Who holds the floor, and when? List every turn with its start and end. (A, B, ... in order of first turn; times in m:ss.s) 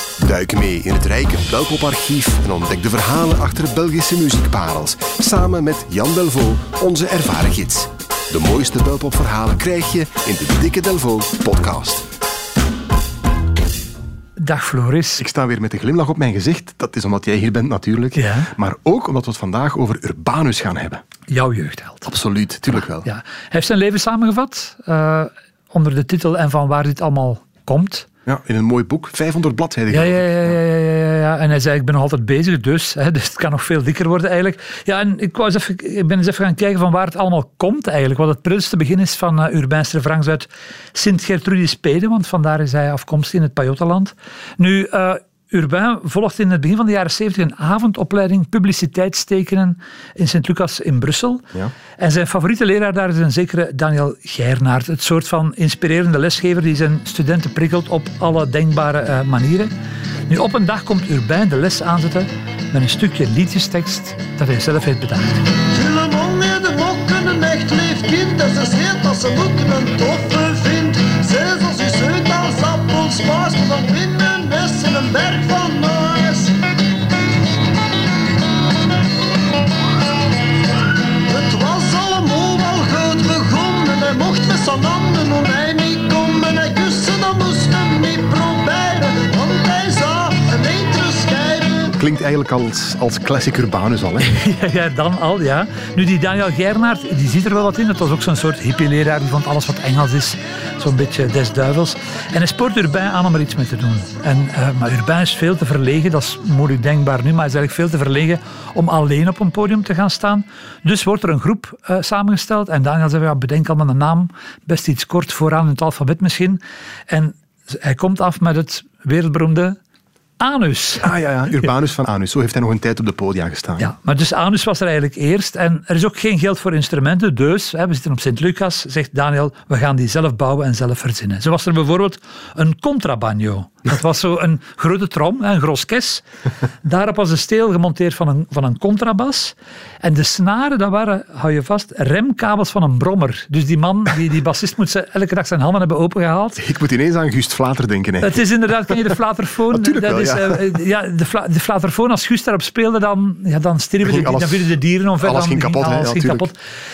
0:00.2-0:12.0 A
0:14.4-0:15.2 B
0:15.2-0:21.0 A
0:18.2-0:18.5 B
0:21.3-0:22.1 B
0:22.1-0:23.1 A
0:22.9-0:28.1 B
0:28.3-0:30.5 A
0:29.9-0:51.4 B
0:52.0-0:59.7 B
1:00.3-1:05.5 B
1:05.6-1:16.5 C
1:21.3-1:31.9 C
1:31.9-1:34.4 A
1:34.2-1:59.8 B
2:00.4-2:01.1 B
2:01.0-2:03.9 A
2:03.8-2:16.2 B
2:16.8-2:26.6 B
2:26.6-2:28.4 A
2:28.2-2:36.6 B
2:29.7-2:30.7 A
2:34.0-2:36.5 A